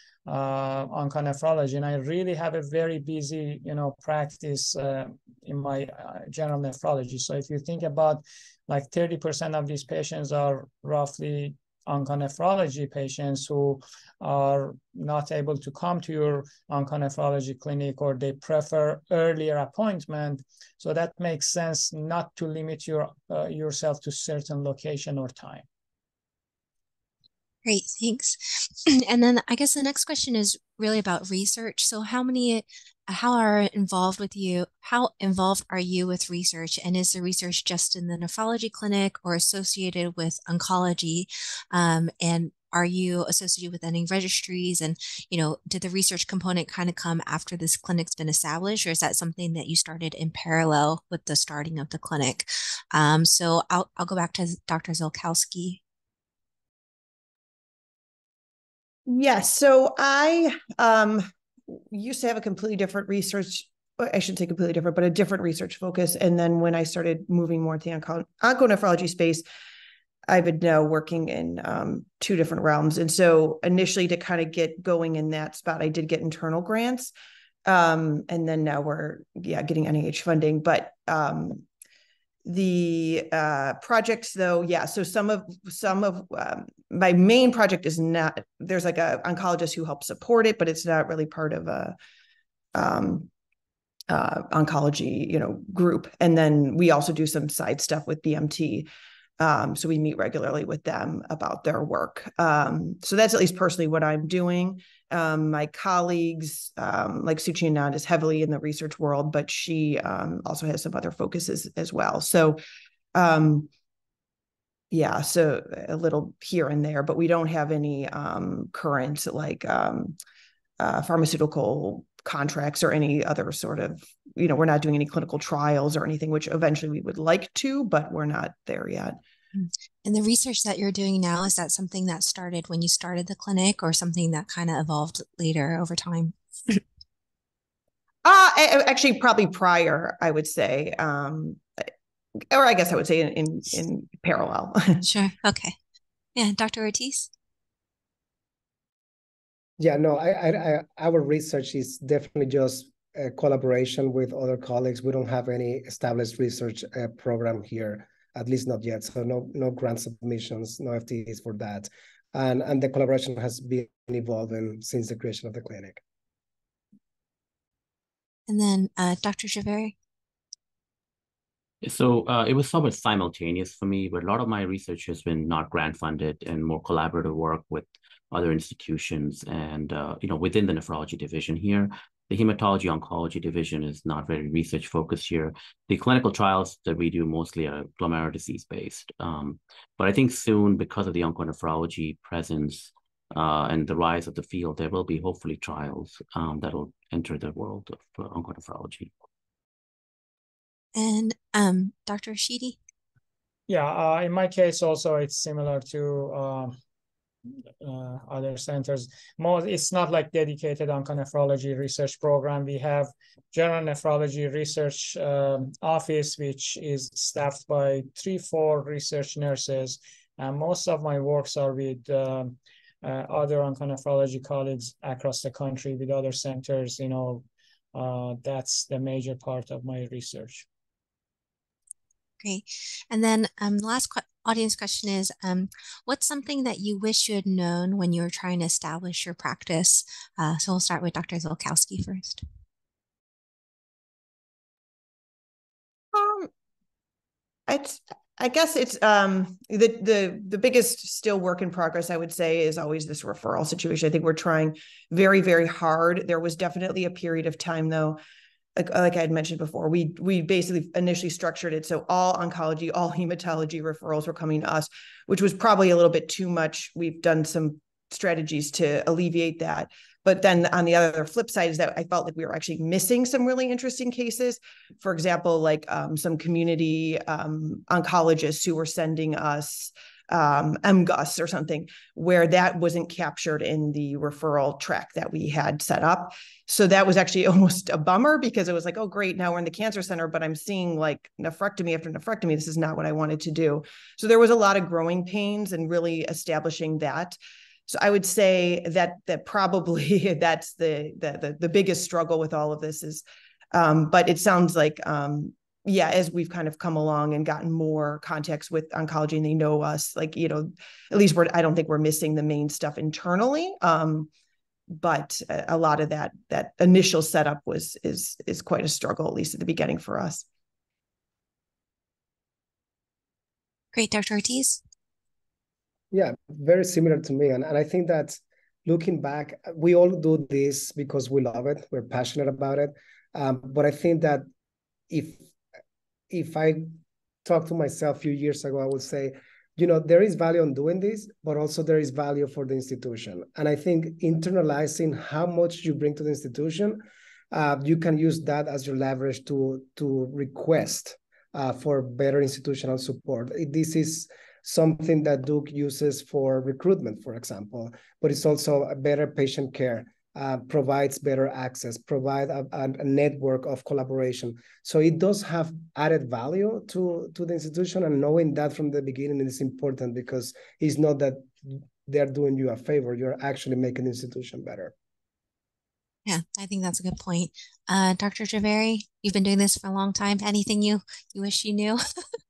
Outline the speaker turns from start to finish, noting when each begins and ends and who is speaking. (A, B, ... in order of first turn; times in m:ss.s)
0:00.3-0:25.6 A
0:27.6-0:55.8 B
0:59.1-1:09.4 C
1:10.3-1:17.1 C
1:17.6-1:21.6 C
1:22.4-1:31.9 C
1:32.7-1:33.3 C
1:34.1-1:38.9 C
1:39.4-1:52.6 C
1:53.1-1:53.7 C
1:54.9-2:00.1 C
2:00.8-2:09.2 C
2:09.6-2:16.8 B
2:18.2-2:21.6 C
2:22.5-2:25.0 C
2:25.0-2:25.8 B
2:26.4-2:27.3 B
2:29.8-2:46.0 D
2:48.5-2:49.9 B
2:51.8-3:19.1 E
3:21.0-3:22.8 B
3:23.7-3:26.8 A
3:27.8-3:50.6 A
3:52.4-4:02.4 B
4:06.1-4:06.5 C
4:07.7-4:18.2 C
4:18.8-4:57.4 C
4:57.9-5:14.3 C
5:14.9-5:20.4 C
5:23.9-5:24.8 B
5:26.1-5:34.4 D
5:35.1-5:35.4 D
5:36.3-6:14.9 D
6:16.3-6:22.0 B